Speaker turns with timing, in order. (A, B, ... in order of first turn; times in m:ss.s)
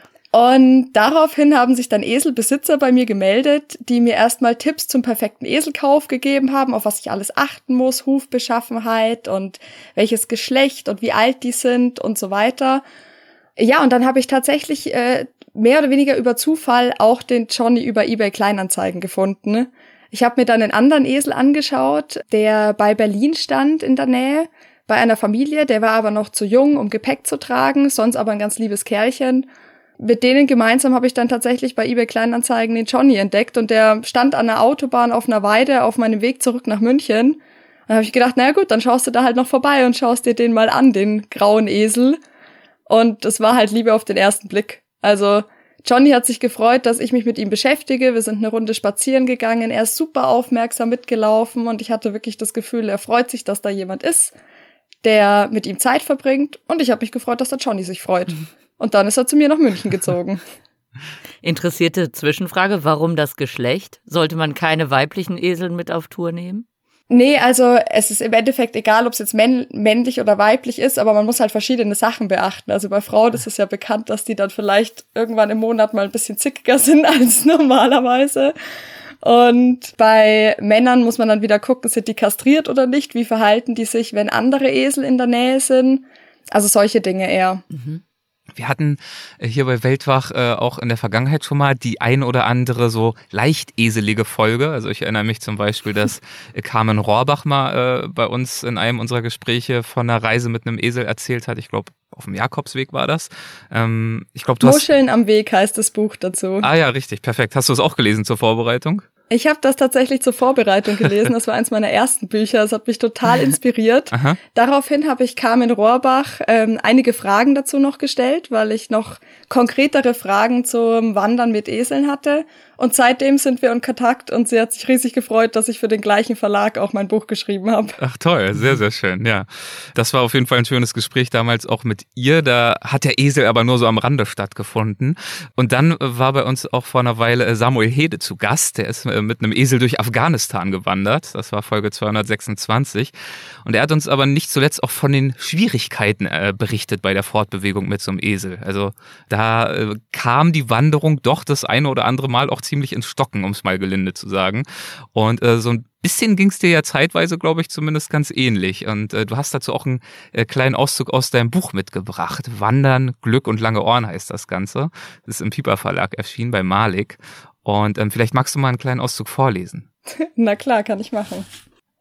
0:00.3-0:12.8 A
0:13.6-0:29.5 A
0:30.0-0:42.2 A
0:42.9-0:54.4 A
0:55.0-1:00.4 A
1:01.4-1:06.6 B
1:07.1-1:18.6 A
1:19.2-1:27.6 A
1:27.7-1:28.0 B
1:28.6-1:44.8 C
1:44.6-1:46.7 A
1:46.6-1:49.0 C
1:49.3-2:08.0 A
1:54.1-1:54.4 C
2:08.0-2:23.1 C
2:23.6-2:49.9 C
2:50.2-2:51.5 A